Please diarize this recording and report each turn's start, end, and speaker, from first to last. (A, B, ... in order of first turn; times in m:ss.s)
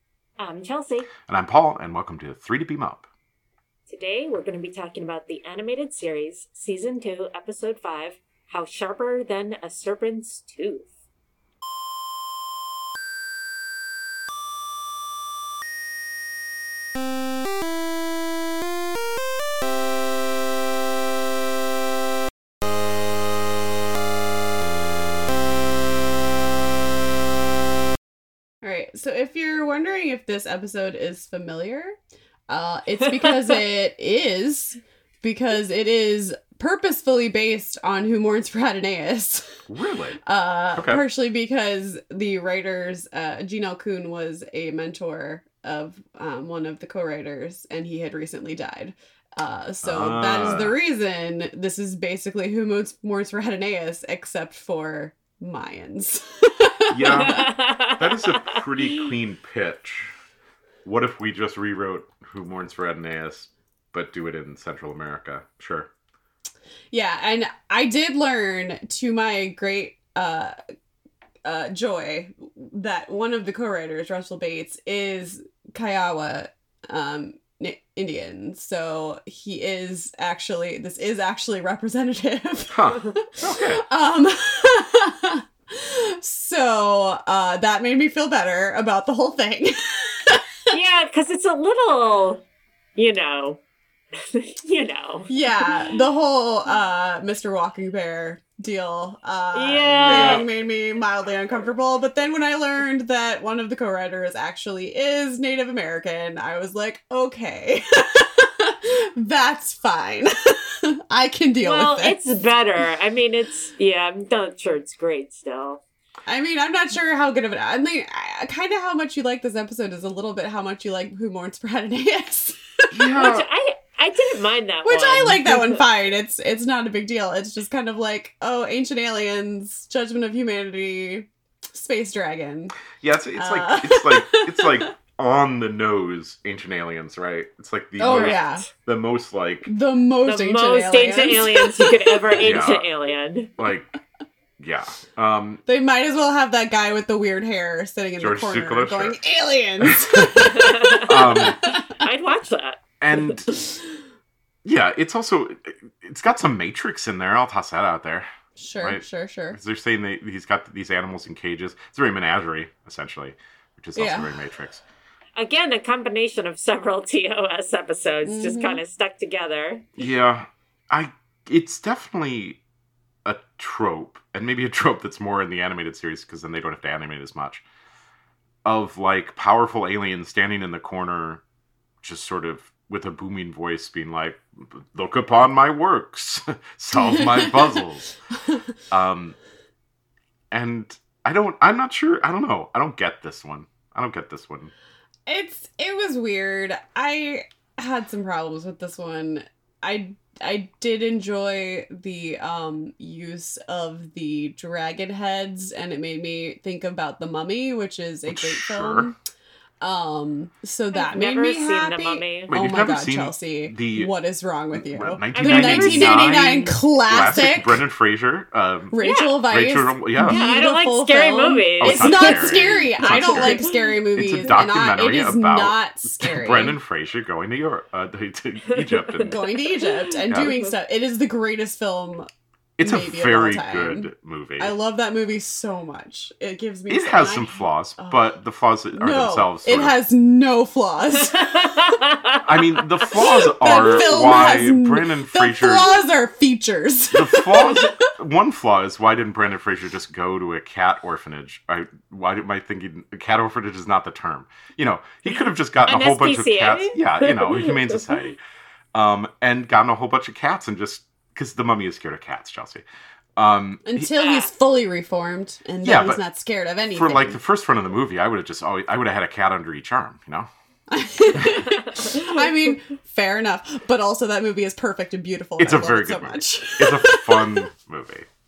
0:00.4-0:01.1 A
0:01.3-0:03.1 B
0:03.9-0:10.9 A
0:28.6-0:32.0 C
0:32.5-0:39.6 C
0:39.7-0:40.2 B
0:40.2-0:57.4 C
0:40.7-0:41.0 B
0:49.8-0:50.8 B
0:56.9-1:00.1 B
0:57.1-0:59.0 A
1:00.8-1:05.9 B
1:06.9-1:10.5 C
1:11.4-1:30.4 C
1:22.7-1:23.8 B
1:30.7-1:32.4 A
1:33.0-1:33.6 A
1:34.3-1:35.8 A
1:35.3-1:52.2 C
1:39.5-1:40.4 A
1:40.0-1:40.4 B
1:51.6-1:55.8 A
1:56.3-2:02.6 C
2:02.9-2:03.4 B
2:03.1-2:05.8 A
2:04.8-2:12.7 C
2:13.0-2:19.7 B
2:13.3-2:14.9 C
2:18.0-2:18.6 C
2:18.0-2:18.6 A
2:19.7-2:22.4 C
2:20.2-2:23.5 A
2:22.4-2:22.9 B
2:23.6-2:23.9 B
2:24.6-2:25.6 B
2:25.6-2:31.8 C
2:28.2-2:29.2 B
2:29.8-2:31.6 B
2:30.5-2:33.2 A
2:33.0-2:33.4 B
2:33.4-2:33.8 C
2:34.6-2:38.3 B
2:38.6-2:39.6 C
2:38.8-2:44.8 B
2:43.9-2:44.4 C
2:45.4-2:49.9 A
2:48.2-2:48.8 C
2:50.0-2:52.6 B
2:53.2-2:57.6 B
2:58.6-3:01.4 B
3:02.0-3:08.1 B
3:07.0-3:07.8 C
3:08.9-3:09.4 B
3:10.5-3:14.7 B
3:15.2-3:29.2 C
3:28.3-3:29.1 B
3:29.8-3:37.8 C
3:30.9-3:32.5 A
3:32.5-3:34.1 B
3:34.7-3:40.4 B
3:35.3-3:36.7 A
3:38.9-3:46.8 C
3:39.0-3:39.4 A
3:40.2-3:44.0 A
3:41.8-3:49.4 B
3:48.7-3:50.0 A
3:49.2-3:52.3 C
3:50.3-3:50.6 B
3:52.8-3:54.7 B
3:52.8-3:58.3 C
3:56.9-4:00.0 B
3:58.9-4:02.0 C
4:01.4-4:02.4 A
4:02.4-4:05.9 B
4:03.1-4:08.0 C
4:03.2-4:04.5 A
4:07.1-4:18.4 B
4:15.3-4:18.2 A
4:18.9-4:22.8 B
4:23.4-4:24.1 B
4:23.8-4:27.4 C
4:24.2-4:24.5 A
4:25.8-4:26.2 B
4:26.8-4:30.5 B
4:30.9-4:37.7 C
4:35.6-4:38.3 B